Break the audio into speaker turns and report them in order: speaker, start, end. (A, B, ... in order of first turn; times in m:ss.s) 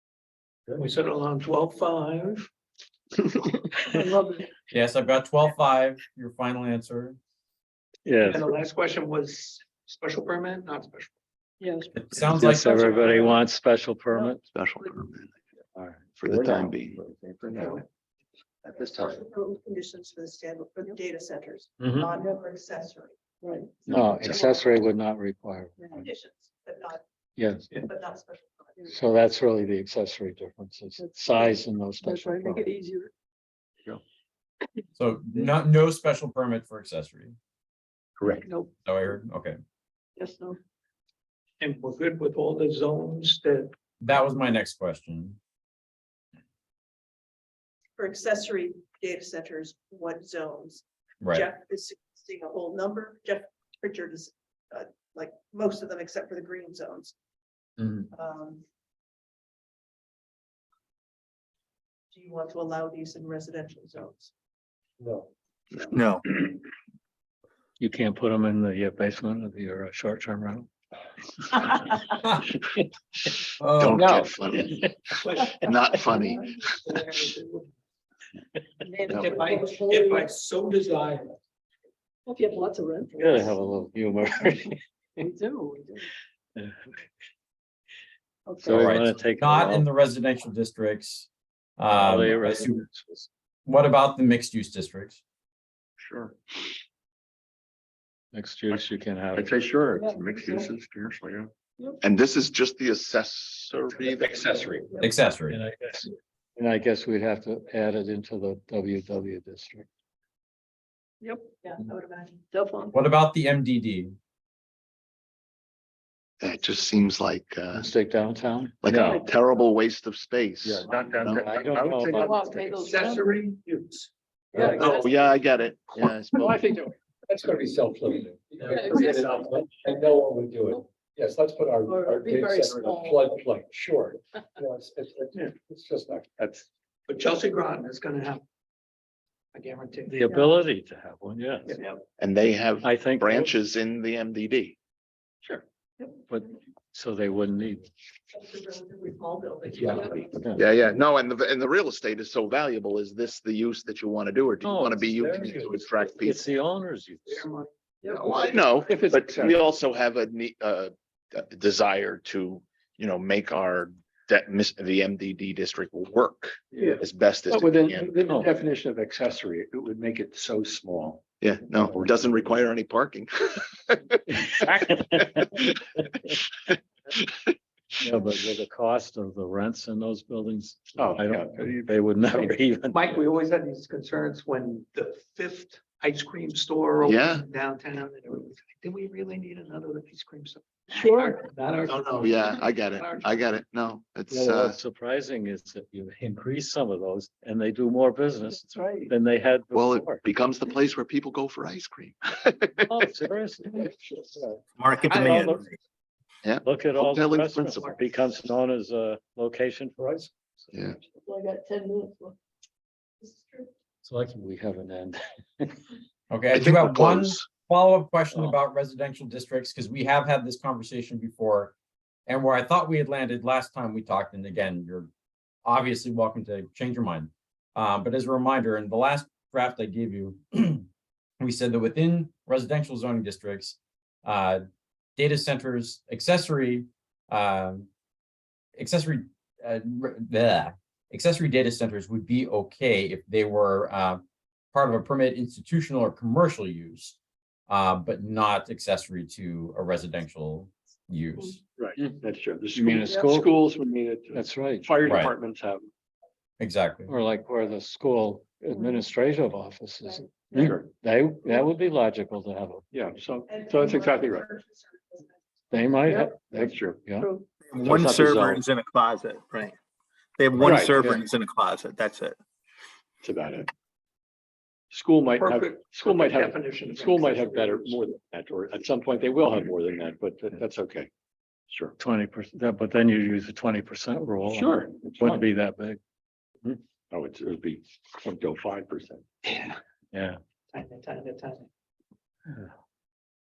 0:00.7-0:02.5 A
0:03.9-0:04.5 B
0:04.7-0:07.2 C
0:08.0-0:08.5 D
0:08.2-0:11.1 A
0:11.6-0:13.4 B
0:11.9-0:13.4 C
0:12.2-0:14.4 D
0:14.5-0:15.4 E
0:15.8-0:16.7 D
0:16.2-0:17.8 E
0:17.0-0:17.4 F
0:17.5-0:17.8 A
0:18.7-0:23.2 G
0:21.8-0:22.1 D
0:22.2-0:22.4 B
0:23.4-0:24.0 B
0:23.9-0:26.1 D
0:25.9-0:27.0 G
0:27.4-0:27.8 D
0:27.8-0:28.8 G
0:28.9-0:32.7 D
0:31.0-0:33.1 B
0:35.0-0:37.4 C
0:38.2-0:38.5 F
0:38.4-0:38.7 B
0:38.8-0:39.6 C
0:40.2-0:40.6 B
0:41.6-0:43.7 A
0:44.0-0:45.4 C
0:48.0-0:57.1 G
0:51.2-0:51.5 C
0:58.1-0:58.6 G
1:02.1-1:04.3 G
1:05.9-1:06.2 H
1:07.8-1:10.7 D
1:13.6-1:14.1 C
1:13.8-1:14.9 E
1:15.2-1:16.2 A
1:15.4-1:16.6 E
1:16.7-1:17.7 A
1:18.8-1:20.3 B
1:19.1-1:19.4 E
1:19.1-1:21.3 A
1:22.3-1:23.6 B
1:23.2-1:24.8 D
1:25.2-1:26.1 B
1:26.6-1:27.0 D
1:28.5-1:28.9 B
1:28.6-1:29.9 D
1:28.6-1:32.8 C
1:31.9-1:33.3 D
1:33.7-1:35.2 C
1:36.0-1:36.4 F
1:38.3-1:39.5 D
1:39.4-1:41.5 F
1:40.0-1:40.7 B
1:42.0-1:44.5 E
1:44.0-1:45.0 F
1:45.0-1:45.6 C
1:45.5-1:49.9 D
1:51.2-1:51.8 B
1:51.6-1:52.4 G
1:52.5-1:53.0 B
1:52.9-1:54.2 C
1:56.4-1:57.9 E
1:57.7-1:59.2 D
1:58.8-2:01.5 E
2:00.6-2:02.8 F
2:01.1-2:02.8 D
2:02.1-2:03.3 B
2:02.8-2:04.1 A
2:04.5-2:04.9 F
2:04.5-2:05.3 B
2:04.6-2:06.6 E
2:04.6-2:05.0 A
2:06.4-2:16.7 F
2:08.6-2:09.5 B
2:11.8-2:13.3 B
2:17.1-2:18.4 A
2:19.5-2:20.2 A
2:20.1-2:21.7 D
2:21.7-2:22.0 A
2:22.2-2:24.8 E
2:22.8-2:23.5 D
2:26.3-2:27.9 D
2:28.3-2:30.7 G
2:29.8-2:30.2 A
2:30.6-2:36.4 E
2:34.6-2:37.5 D
2:37.3-2:38.5 A
2:38.1-2:48.2 E
2:38.2-2:38.6 G
2:38.8-2:39.6 F
2:46.8-2:52.3 F
2:51.4-2:54.2 E
2:54.6-2:55.2 D
2:58.0-3:03.2 D
3:01.0-3:02.0 F
3:02.3-3:13.4 A
3:07.0-3:07.4 E
3:11.0-3:11.5 B
3:11.9-3:14.8 E
3:14.3-3:20.2 D
3:18.6-3:19.1 B
3:19.7-3:22.9 E
3:22.9-3:25.6 D
3:24.8-3:25.8 H
3:26.4-3:28.1 E
3:26.6-3:30.7 D
3:30.7-3:31.0 E
3:31.3-3:32.4 B
3:34.0-3:35.8 D
3:36.3-3:41.8 C
3:36.5-3:37.5 E
3:42.3-3:45.1 C
3:45.6-3:50.8 C
3:51.4-3:54.6 C
3:55.2-3:57.9 C
3:58.8-4:07.2 C
4:07.7-4:11.6 C
4:11.8-4:15.9 F
4:12.7-4:13.6 D
4:14.3-4:14.9 D
4:15.0-4:15.4 C
4:16.6-4:17.1 C
4:17.1-4:22.8 D
4:20.5-4:20.9 F
4:22.9-4:24.5 F
4:23.5-4:25.4 G
4:25.7-4:28.6 D
4:26.1-4:27.1 F
4:27.2-4:27.5 B
4:27.6-4:29.8 H
4:30.4-4:32.4 H
4:30.6-4:31.2 F
4:33.2-4:33.7 F
4:34.9-4:41.1 F
4:35.4-4:38.0 A
4:41.7-4:42.0 F
4:42.0-4:46.0 D
4:44.5-4:45.4 F
4:47.1-4:49.2 F
4:50.1-4:50.4 D
4:50.7-4:51.7 A